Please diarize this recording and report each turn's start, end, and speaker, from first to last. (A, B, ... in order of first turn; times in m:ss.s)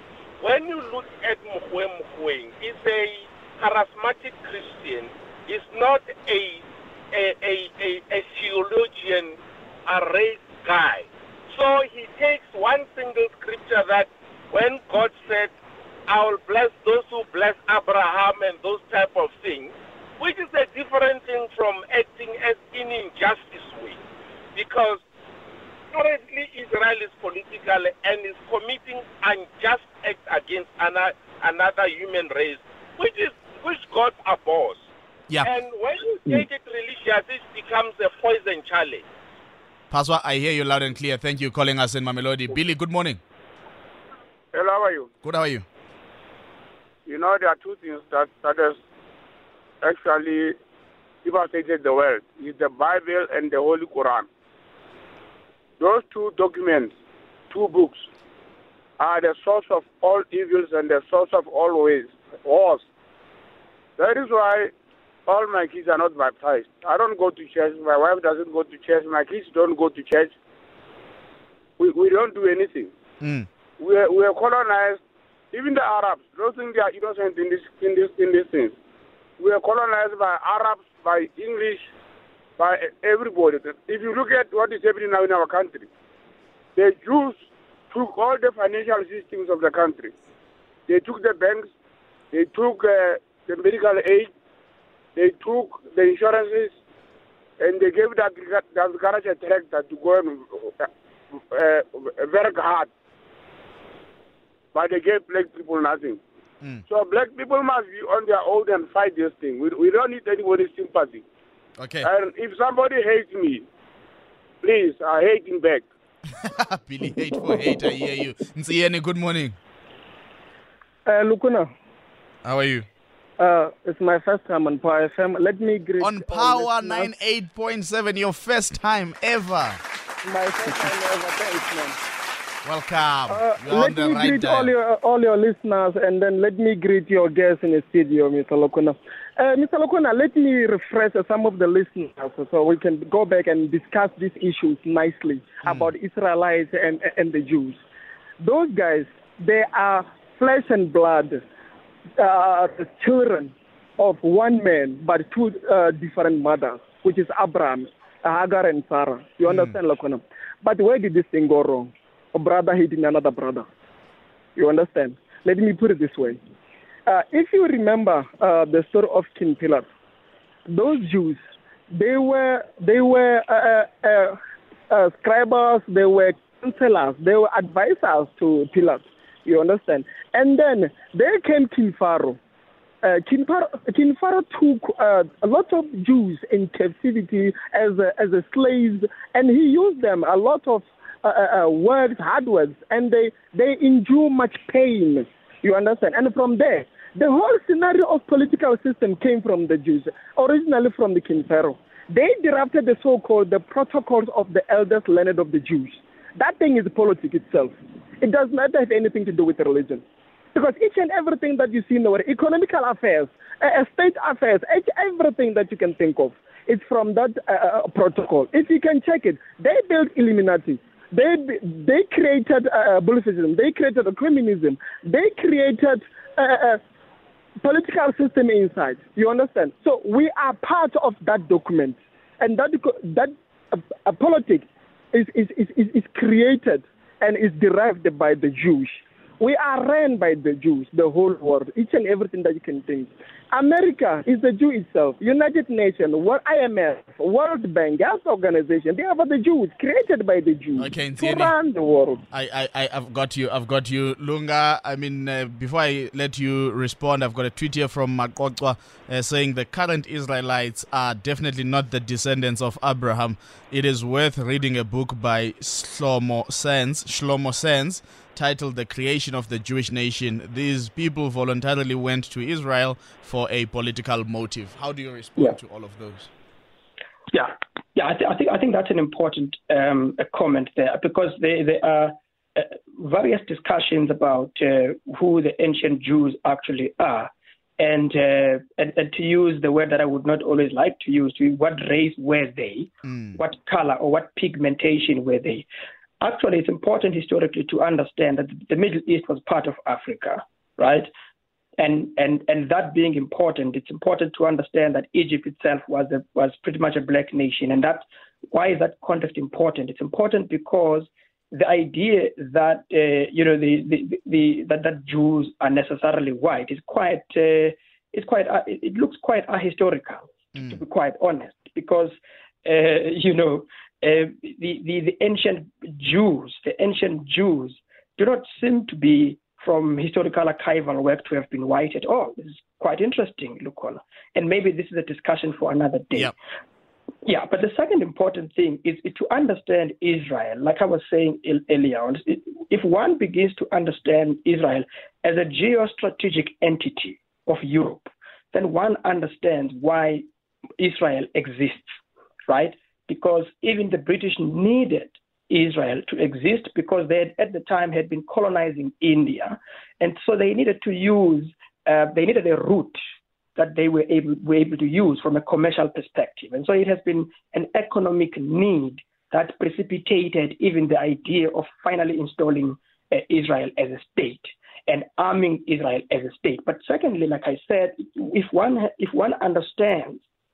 0:00.4-0:15.5 A
0:16.1-0:24.0 A
0:24.6-0:25.0 A
0:25.9-0:34.9 A
0:35.4-0:39.0 A
0:39.9-0:43.2 B
0:44.5-0:45.1 C
0:45.2-0:45.6 B
0:47.1-0:48.8 C
0:49.8-0:50.6 C
0:51.2-0:54.3 C
0:55.8-0:56.9 C
0:57.5-0:58.0 C
0:59.0-1:02.8 C
1:04.0-1:04.7 C
1:05.3-1:10.3 C
1:11.8-1:12.9 C
1:13.2-1:13.5 B
1:13.8-1:15.0 C
1:15.5-1:18.8 C
1:19.4-1:21.9 C
1:22.6-1:25.9 C
1:26.8-1:30.1 C
1:30.9-1:31.7 C
1:32.3-1:34.3 C
1:35.2-1:36.8 C
1:37.6-1:40.9 C
1:41.5-1:42.9 C
1:44.7-1:46.2 C
1:46.9-1:51.2 C
1:51.8-1:52.1 B
1:52.0-1:53.6 C
1:54.6-1:55.9 C
1:56.3-1:59.6 B
2:01.1-2:01.7 D
2:02.4-2:02.9 B
2:03.4-2:07.1 D
2:06.0-2:09.8 B
2:10.2-2:12.0 D
2:12.6-2:14.7 B
2:13.3-2:27.8 D
2:25.6-2:25.9 B
2:28.4-2:31.4 D
2:32.2-2:43.7 D
2:39.5-2:39.8 B
2:44.6-2:46.4 D
2:47.1-2:49.9 D
2:50.7-2:54.4 D
2:54.9-3:02.4 D
3:03.0-3:30.0 D
3:30.5-3:46.8 D
3:47.6-4:12.2 D
4:10.8-4:11.5 B
4:12.3-4:36.3 B
4:37.3-4:55.7 E
4:53.1-4:53.4 B
4:56.2-5:01.1 E
5:01.8-5:36.3 E
5:37.2-5:50.2 E
5:50.8-6:03.0 E
6:03.6-6:20.2 E